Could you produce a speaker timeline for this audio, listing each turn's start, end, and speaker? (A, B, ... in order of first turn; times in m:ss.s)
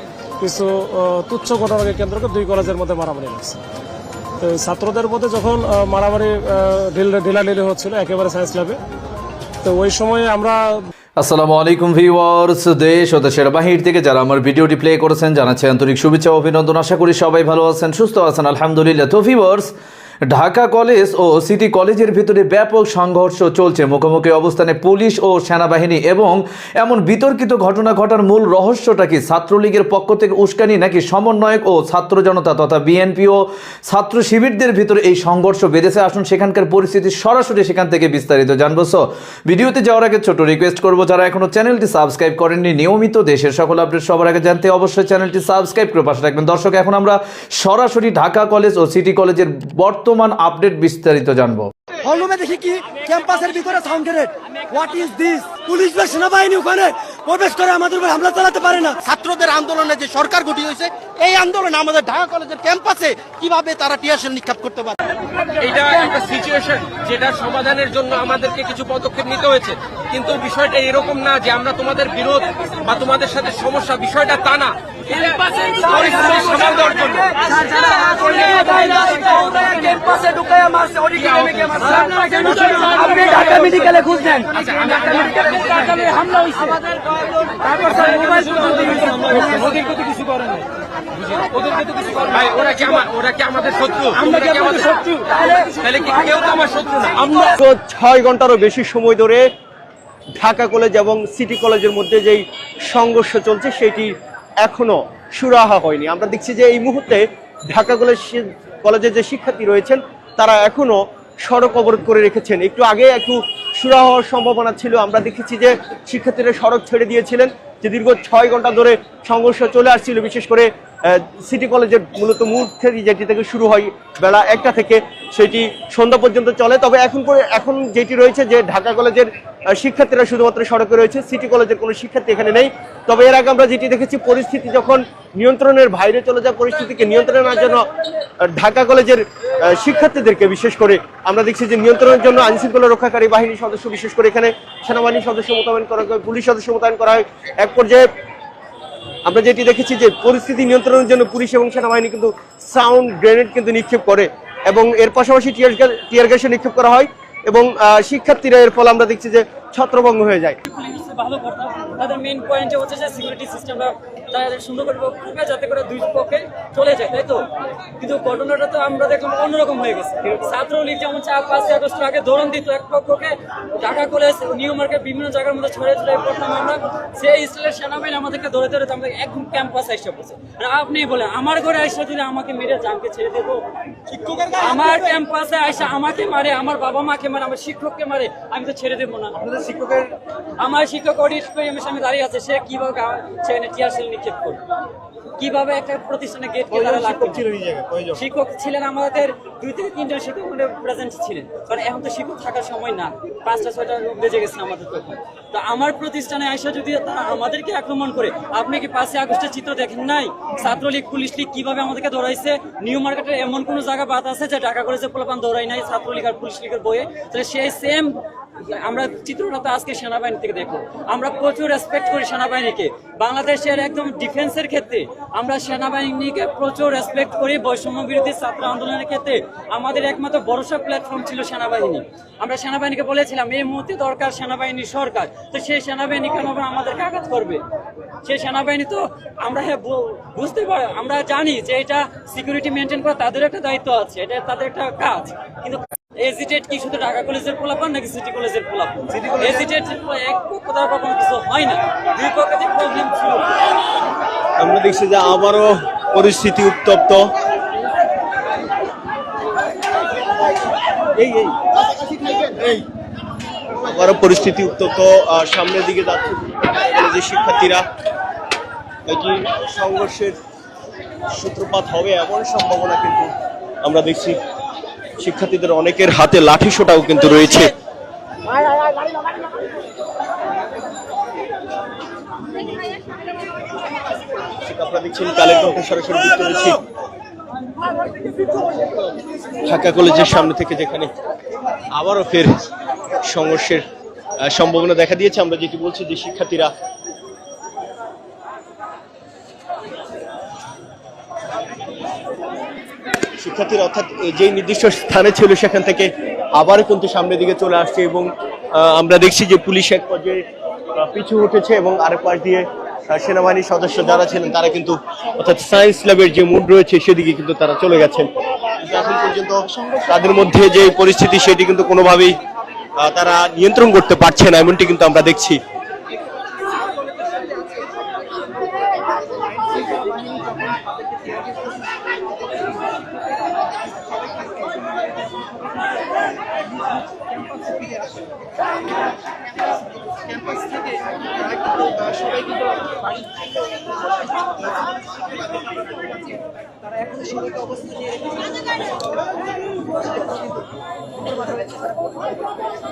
0:00.4-0:03.6 A
0:04.4-0:08.8 A
0:09.6-0:10.9 A
0:11.2-0:19.7 B
0:20.3-0:51.7 B
0:52.0-0:59.2 C
0:59.2-1:00.4 D
0:59.9-1:03.6 C
1:01.8-1:04.9 D
1:05.6-1:17.2 E
1:15.9-1:17.3 C
1:17.9-1:26.1 C
1:27.8-1:30.0 C
1:32.4-1:34.9 E
1:34.2-1:34.5 C
1:35.8-1:37.1 E
1:37.6-1:39.4 F
1:40.4-1:44.1 F
1:44.6-2:17.8 F
2:18.4-2:28.0 F
2:29.2-2:40.6 F
2:40.7-2:47.4 G
2:48.0-3:03.6 G
3:04.5-3:09.4 G
3:09.4-3:10.0 F
3:10.6-3:14.6 G
3:15.4-3:17.4 G
3:16.7-3:18.2 F
3:18.1-3:57.6 G
3:58.2-4:13.5 G
4:14.6-4:17.2 F
4:21.2-4:21.6 F
4:22.3-4:22.8 F
4:23.8-4:27.8 F
4:29.1-4:30.4 F
4:31.3-4:33.3 F
4:33.8-4:34.4 F
4:35.2-4:37.7 F
4:44.6-4:46.8 F
4:49.6-4:51.1 F
4:51.9-4:52.5 F
4:53.2-4:53.8 F
4:54.4-4:56.7 F
5:03.4-5:10.4 F
5:10.9-5:18.3 F
5:18.8-5:22.4 F
5:23.0-5:25.6 F